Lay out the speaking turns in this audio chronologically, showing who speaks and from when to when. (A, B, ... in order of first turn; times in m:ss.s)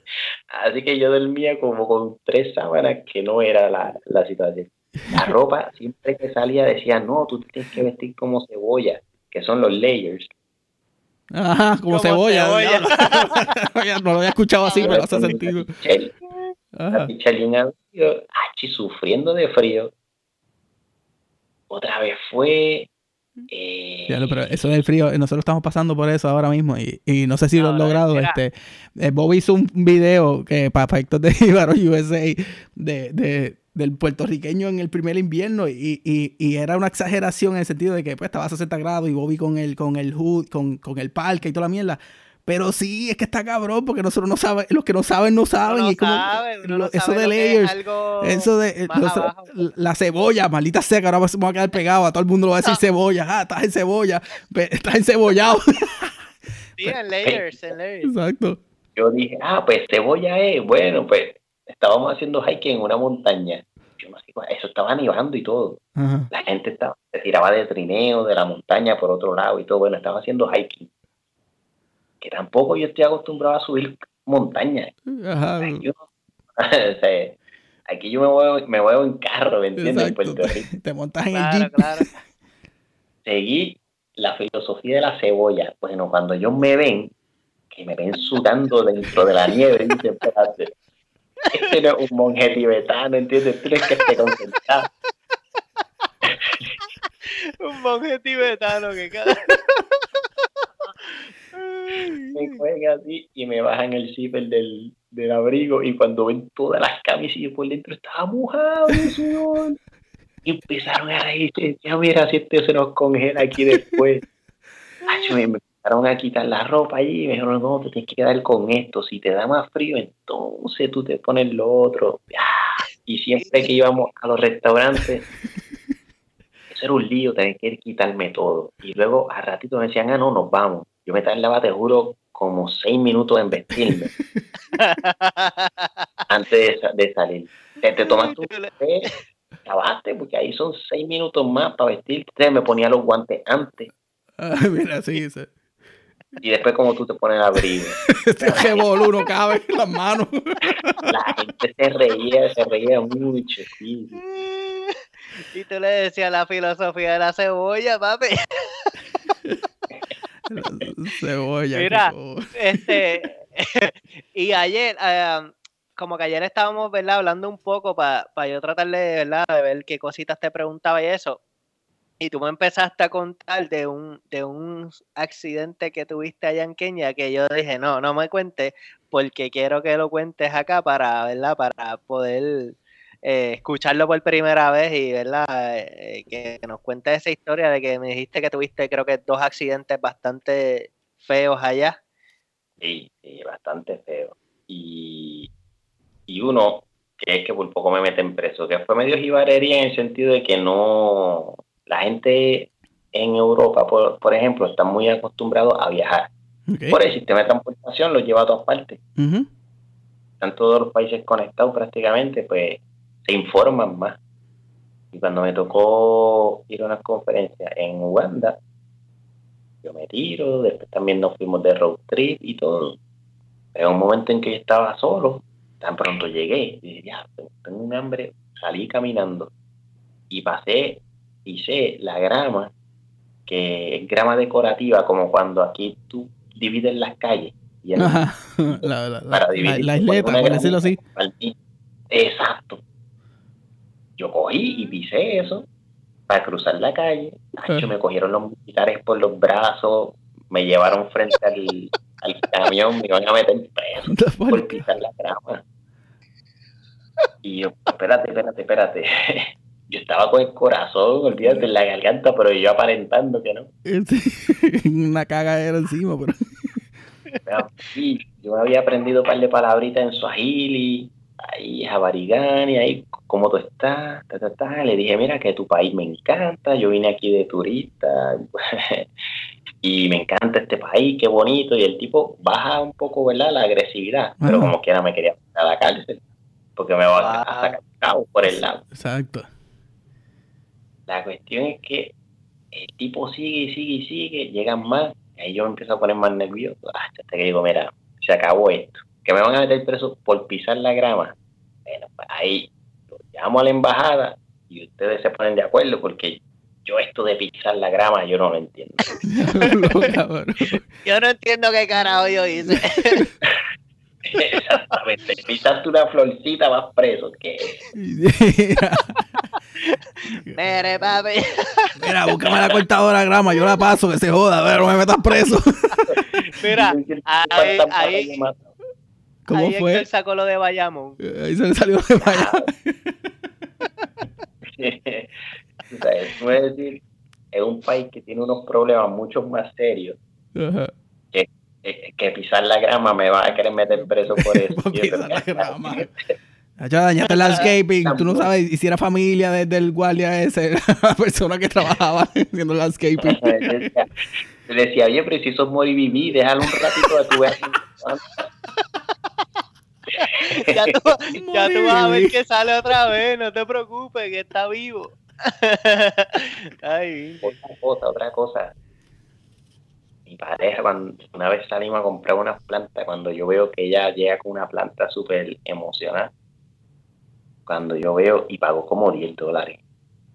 0:00.5-0:10.3 A
0:11.3-0:15.7 B
0:11.9-0:13.5 C
0:14.6-0:14.9 C
0:14.8-0:16.1 A
0:16.7-0:17.1 B
0:16.9-0:19.9 A
0:21.7-0:22.9 A
0:23.5-0:24.7 A
0:24.1-0:56.1 B
0:27.6-0:28.4 C
0:45.6-0:49.7 C
0:56.8-0:58.1 C
0:58.0-0:58.6 B
0:59.0-1:10.9 A
1:06.0-1:06.3 B
1:12.2-1:14.9 A
1:15.1-1:15.8 B
1:15.6-1:16.0 A
1:16.6-1:17.4 A
1:17.9-1:20.7 A
1:19.8-1:22.1 B
1:21.3-1:22.1 C
1:23.2-1:27.1 A
1:27.7-1:30.7 A
1:31.5-1:34.9 A
1:36.3-1:36.7 A
1:37.2-1:40.7 C
1:41.6-1:42.6 C
1:42.3-1:49.8 A
1:50.4-1:54.2 A
1:55.0-1:55.4 C
1:55.1-2:05.3 A
2:03.4-2:03.7 C
2:06.7-2:14.1 A
2:13.9-2:14.4 B
2:14.7-2:16.0 C
2:16.3-2:19.1 A
2:18.0-2:19.2 C
2:19.6-2:23.9 A
2:24.4-2:25.5 B
2:26.4-2:28.7 A
2:28.1-2:31.0 B
2:28.4-2:29.1 C
2:31.1-2:34.2 A
2:34.2-2:39.3 C
2:40.5-2:43.0 B
2:41.7-2:51.4 C
2:52.2-3:12.0 C
3:12.8-3:15.5 A
3:16.3-3:26.3 A
3:26.7-3:27.0 B
3:26.9-3:29.0 A
3:29.2-3:29.5 B
3:30.4-3:34.2 A
3:35.1-3:38.6 A
3:39.8-3:43.0 A
3:43.7-3:49.5 A
3:50.3-3:52.7 A
3:53.5-4:01.6 A
3:58.0-4:01.0 B
4:02.1-4:02.8 A
4:04.2-4:05.7 A
4:06.3-4:15.6 A
4:14.1-4:14.8 B
4:17.4-4:23.7 A
4:21.4-4:21.7 B
4:23.9-4:26.9 B
4:27.4-4:39.1 A
4:39.8-4:46.2 A
4:44.4-4:44.7 B
4:46.8-4:48.8 A
4:47.2-4:47.8 C
4:48.5-4:49.5 B
4:51.1-4:52.1 A
4:52.7-5:01.3 A
5:01.9-5:09.1 A
5:09.3-5:10.9 B
5:09.6-5:10.0 C
5:11.0-5:13.3 C
5:12.7-5:13.3 B
5:14.3-5:17.8 A
5:14.6-5:15.0 C
5:18.0-5:19.1 B
5:19.2-5:22.0 C
5:22.0-5:26.2 B
5:26.4-5:28.6 A
5:26.6-5:28.4 C
5:29.4-5:30.0 B
5:29.5-5:31.2 C
5:31.2-5:33.1 B
5:32.2-5:32.7 A
5:34.7-5:35.3 A
5:35.9-5:37.0 A
5:37.5-5:40.2 A
5:40.6-5:40.9 B
5:41.3-5:46.3 A
5:44.0-5:46.1 B
5:46.8-5:53.9 B
5:48.0-5:48.5 A
5:53.2-5:54.1 A
5:54.7-5:58.4 A
6:00.2-6:07.5 C
6:00.3-6:00.9 A
6:01.3-6:02.4 B
6:07.4-6:08.7 A
6:10.3-6:16.3 A
6:17.7-6:19.8 A